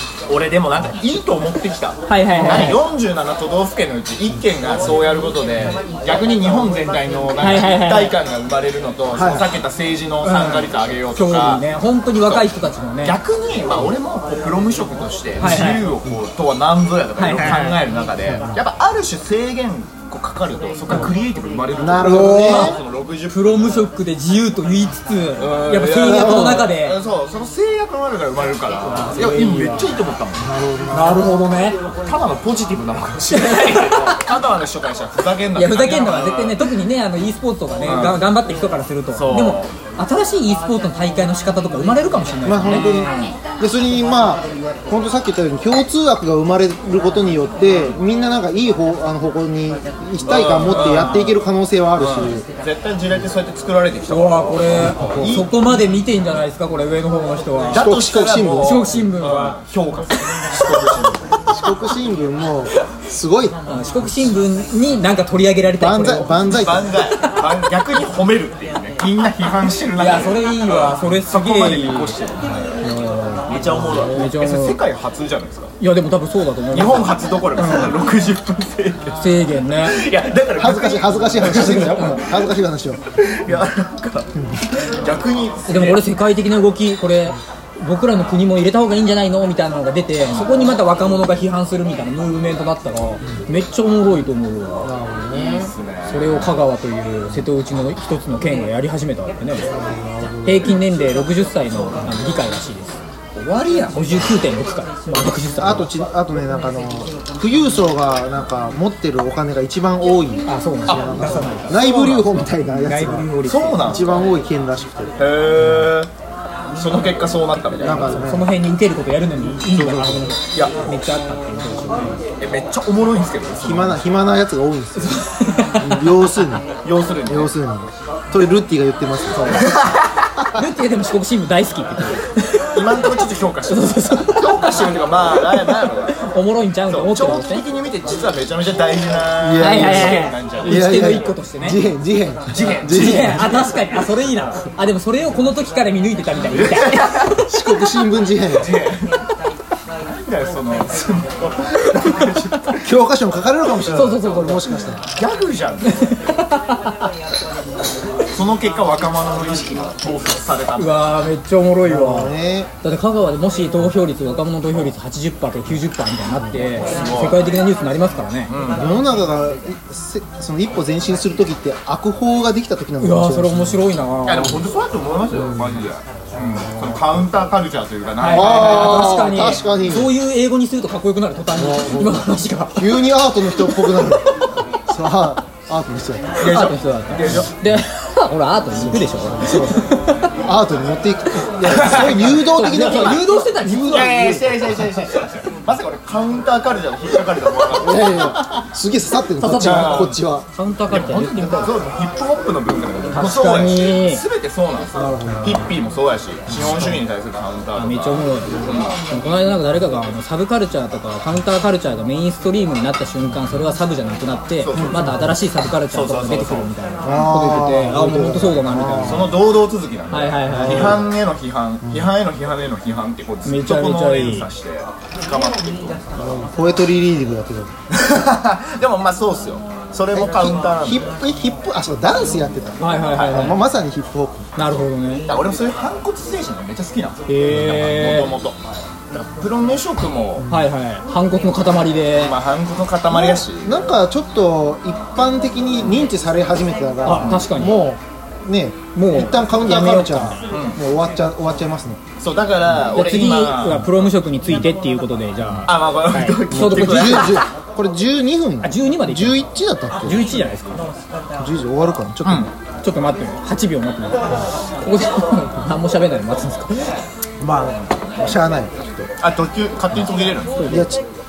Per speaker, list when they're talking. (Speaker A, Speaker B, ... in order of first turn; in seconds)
Speaker A: 0.3-11.7, 12.2-12.5, 13.0-23.8, 25.4-30.5, 32.0-36.6, 37.8-38.3, 39.1-39.7, 42.6-43.4, 47.6-48.0, 50.2-51.3, 52.0-55.5, 57.7-61.2, 66.5-72.7, 73.5-75.7, 76.7-82.3, 83.1-86.0, 95.3-96.6, 103.3-104.2, 110.9-112.2, 113.4-114.3, 115.2-116.1, 116.7-118.2, 119.7-120.9, 122.4-124.0, 126.8-127.5, 129.5-130.1, 132.7-136.2, 136.9-141.2, 142.5-143.6, 146.4-147.4, 148.5-149.2, 150.1-152.9, 155.1-156.1, 158.3-161.0, 166.8-167.5, 168.5-169.0, 174.2-179.2, 186.4-187.5, 191.7-193.3, 193.9-198.6, 199.5-200.2, 200.9-208.9, 214.6-215.1, 215.8-216.7, 219.0-226.1, 227.9-231.0, 233.1-233.6, 235.3-238.6, 239.1-240.4, 242.1-243.8, 250.5-250.8, 252.2-253.9, 255.7-257.4, 262.2-262.5, 269.2-270.6
Speaker B: 2.1-2.8, 7.4-8.2, 10.2-13.2, 15.4-15.9, 17.1-17.8, 22.0-22.8, 23.3-27.0, 28.8-30.0, 30.9-31.8, 33.3-34.2, 35.5-42.9, 50.7-51.3, 54.1-57.9, 58.6-59.6, 63.7-66.6, 70.0-72.2, 72.8-74.8, 75.8-78.0, 79.1-80.0, 81.9-82.2, 85.7-94.9, 96.0-99.7, 100.4-103.0, 103.9-105.9, 110.5-114.2, 118.0-122.2, 125.0-126.1, 129.3-129.7, 130.5-133.1, 133.7-137.7, 139.6-141.8, 142.5-147.3, 153.9-154.7, 155.9-156.9, 160.8-168.5, 173.0-174.6, 178.2-184.1, 186.4-190.2, 191.7-194.4, 199.4-201.8, 203.1-204.2, 207.7-219.3, 220.1-221.0, 223.4-224.5, 232.8-233.6, 234.6-235.3, 237.3-238.3, 240.5-242.3, 247.0-247.8, 248.9-250.4, 252.9-257.4, 258.6-260.9, 262.8-266.9, 270.6-270.9
Speaker C: 2.3-2.8, 9.1-9.5, 18.3-18.6, 21.8-22.8, 26.0-26.7, 30.4-31.4, 42.4-52.4, 54.8-55.4, 57.7-58.9, 61.5-63.5, 65.8-66.9, 80.5-83.0, 94.8-95.7, 99.7-100.8, 105.6-113.3, 113.8-115.2, 117.8-118.5, 123.6-125.2, 125.8-126.7, 127.3-129.8, 139.4-143.7, 147.4-148.7, 152.8-155.0, 161.8-162.7, 168.8-173.8, 175.3-175.7, 176.6-177.0, 178.3-180.1, 181.5-184.3, 184.8-186.3, 188.8-189.8, 190.4-195.1, 197.7-200.4, 204.9-205.7, 214.7-215.3, 217.0-219.4, 220.5-221.1, 221.8-222.1, 226.2-227.7, 230.1-234.8, 243.1-252.0, 256.5-260.4, 261.4-262.5, 267.4-269.1, 270.6-271.0